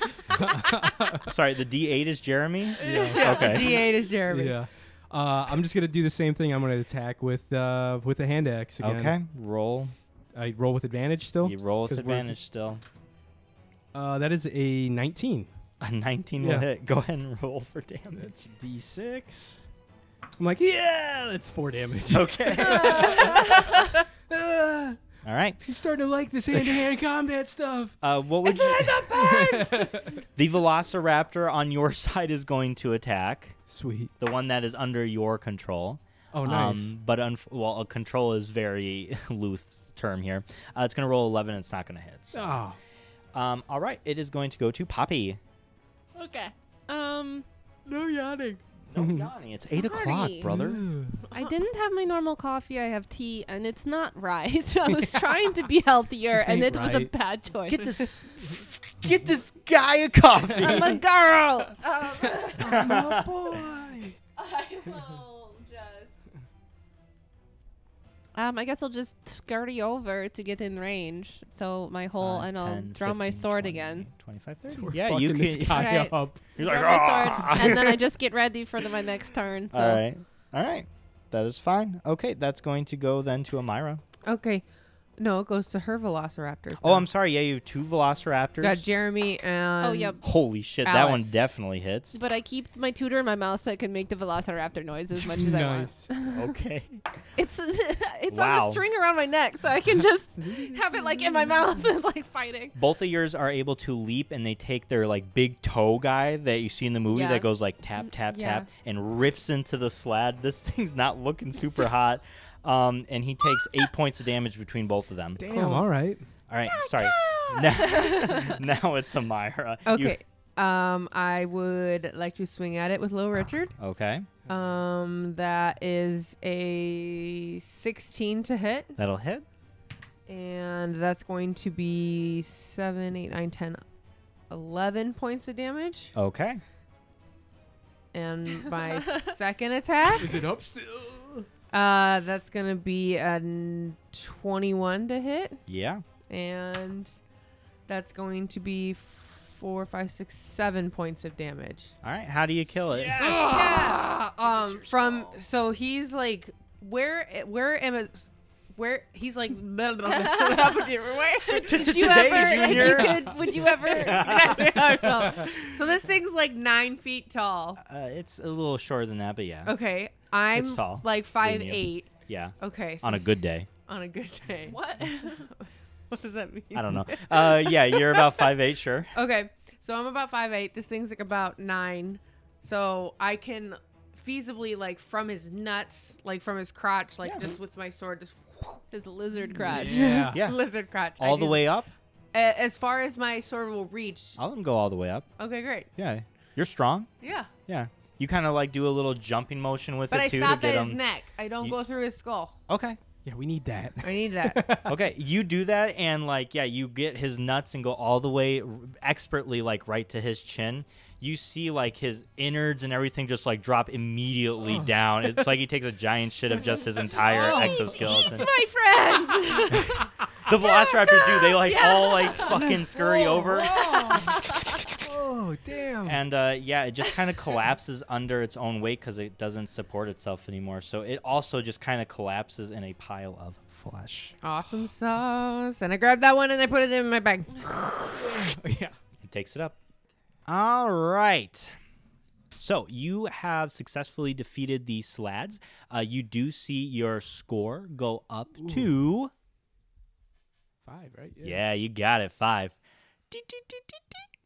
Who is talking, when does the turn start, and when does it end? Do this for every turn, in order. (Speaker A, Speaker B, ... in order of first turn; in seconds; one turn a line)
Speaker A: 0.3-1.3
Speaker B: 1.2-3.9
Speaker C: 2.8-4.6
Speaker A: 2.8-9.2
Speaker B: 8.8-9.9
Speaker A: 10.3-12.3
Speaker B: 11.4-12.8
Speaker A: 13.9-15.5
Speaker B: 15.8-18.3
Speaker A: 16.4-16.7
Speaker A: 18.1-19.6
Speaker A: 20.4-25.0
Speaker B: 22.1-23.5
Speaker D: 22.6-23.9
Speaker B: 25.2-25.6
Speaker A: 25.6-28.0
Speaker B: 26.5-26.9
Speaker B: 28.0-29.1
Speaker D: 28.4-29.9
Speaker A: 29.1-30.2
Speaker B: 30.4-33.6
Speaker A: 33.7-34.1
Speaker B: 34.2-42.6
Speaker A: 36.3-36.9
Speaker A: 42.3-42.8
Speaker B: 43.3-45.4
Speaker D: 46.2-47.5
Speaker A: 47.9-49.3
Speaker B: 48.9-50.9
Speaker D: 49.7-50.5
Speaker A: 50.5-51.2
Speaker D: 51.3-58.1
Speaker A: 54.9-55.3
Speaker A: 56.3-57.1
Speaker B: 57.7-61.0
Speaker D: 60.6-62.8
Speaker A: 62.4-64.1
Speaker B: 62.6-63.9
Speaker D: 64.4-66.2
Speaker D: 68.3-74.1
Speaker B: 72.2-78.0
Speaker A: 74.7-76.4
Speaker D: 75.7-80.0
Speaker A: 77.4-77.7
Speaker B: 79.7-84.0
Speaker C: 84.2-84.7
Speaker C: 85.2-87.1
Speaker B: 86.8-88.9
Speaker C: 88.6-90.3
Speaker D: 89.8-90.2
Speaker B: 90.2-92.2
Speaker C: 90.8-91.4
Speaker D: 92.1-96.5
Speaker A: 95.2-96.1
Speaker B: 96.3-97.0
Speaker D: 97.4-102.8
Speaker B: 98.3-98.8
Speaker A: 100.4-101.6
Speaker B: 102.8-115.4
Speaker D: 107.1-107.5
Speaker D: 108.0-108.7
Speaker A: 115.4-116.2
Speaker C: 115.5-115.9
Speaker B: 116.5-120.2
Speaker D: 116.7-118.6
Speaker C: 119.9-123.8
Speaker B: 123.8-124.3
Speaker C: 124.5-129.0
Speaker B: 129.0-129.4
Speaker C: 130.3-133.8
Speaker C: 134.5-136.1
Speaker B: 136.2-136.6
Speaker C: 138.1-140.4
Speaker D: 138.7-139.3
Speaker A: 140.1-141.5
Speaker C: 141.7-145.6
Speaker B: 145.7-146.0
Speaker C: 146.3-147.2
Speaker C: 147.9-151.9
Speaker B: 152.0-153.3
Speaker A: 152.9-154.8
Speaker C: 153.2-167.8
Speaker D: 153.4-154.7
Speaker D: 160.1-160.9
Speaker D: 161.4-164.6
Speaker B: 161.6-165.5
Speaker B: 167.8-169.8
Speaker C: 169.7-178.5
Speaker B: 170.5-173.7
Speaker D: 174.7-175.4
Speaker B: 176.7-179.1
Speaker C: 179.1-188.8
Speaker B: 187.2-187.5
Speaker D: 188.9-190.1
Speaker C: 189.6-191.7
Speaker A: 189.7-190.4
Speaker B: 190.3-190.6
Speaker B: 191.2-191.9
Speaker C: 192.3-194.4
Speaker B: 194.4-195.3
Speaker C: 195.4-195.9
Speaker B: 196.0-197.1
Speaker C: 197.2-197.5
Speaker B: 197.7-201.0
Speaker C: 200.1-202.6
Speaker B: 202.7-203.0
Speaker A: 203.2-205.0
Speaker C: 204.0-204.6
Speaker B: 204.9-218.5
Speaker A: 214.7-214.9
Speaker A: 217.1-218.5
Speaker D: 217.4-220.0
Speaker B: 220.5-224.8
Speaker D: 220.8-224.7
Speaker C: 222.4-223.4
Speaker A: 223.5-226.2
Speaker B: 226.1-234.3
Speaker C: 234.4-238.1
Speaker A: 237.9-239.0
Speaker B: 239.2-239.8
Speaker B: 240.5-241.8
Speaker B: 242.6-249.3
Speaker A: 248.6-248.9
Speaker A: 250.8-251.6
Speaker B: 251.4-252.8
Speaker B: 253.3-254.2